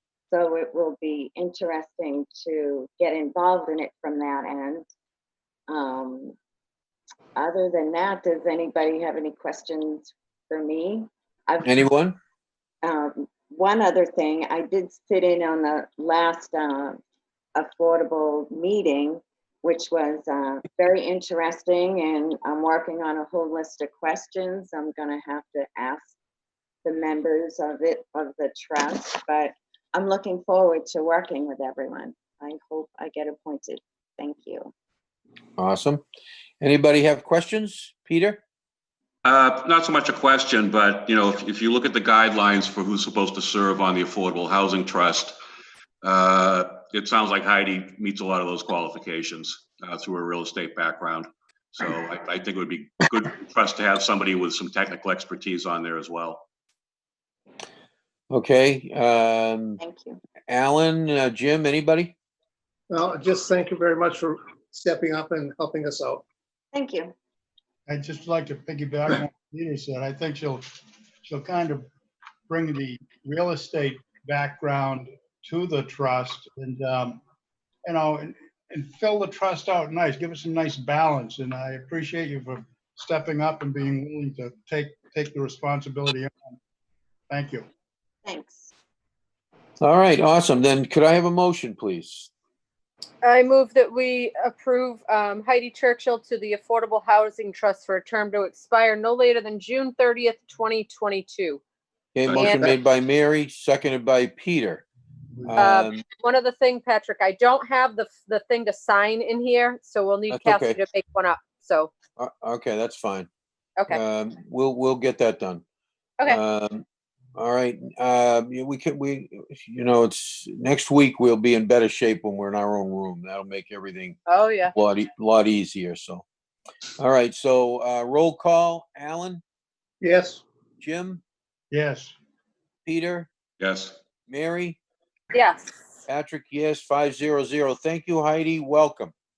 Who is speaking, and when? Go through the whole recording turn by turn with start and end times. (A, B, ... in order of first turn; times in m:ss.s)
0:00.3-0:04.9 A
0:05.7-0:06.4 A
0:07.4-0:11.9 A
0:11.6-0:12.2 B
0:12.8-0:17.0 A
0:17.6-0:26.2 A
0:26.8-0:34.7 A
0:35.6-0:36.0 B
0:36.6-0:38.4 B
0:39.2-0:45.4 C
0:46.0-0:56.4 C
0:58.3-0:59.8 B
0:59.8-1:00.2 A
1:00.5-1:02.1 B
1:02.9-1:06.2 D
1:06.7-1:07.1 A
1:07.9-1:10.7 E
1:11.2-1:11.9 E
1:12.5-1:17.2 E
1:17.8-1:26.6 E
1:27.3-1:27.6 E
1:28.3-1:28.7 A
1:29.8-1:32.3 B
1:33.2-1:41.6 F
1:42.2-1:44.9 B
1:42.3-1:42.5 C
1:42.4-1:42.7 D
1:45.4-1:46.0 B
1:45.6-1:51.9 F
1:50.3-1:50.8 B
1:52.2-1:53.3 B
1:53.9-1:55.6 B
1:56.3-1:56.8 B
1:57.4-2:04.2 B
2:04.3-2:04.7 F
2:04.7-2:06.2 B
2:07.0-2:09.4 B
2:10.0-2:10.4 D
2:10.8-2:11.2 B
2:11.7-2:12.2 E
2:12.9-2:13.3 B
2:13.6-2:14.0 C
2:14.3-2:14.8 B
2:15.3-2:15.8 F
2:16.1-2:19.1 B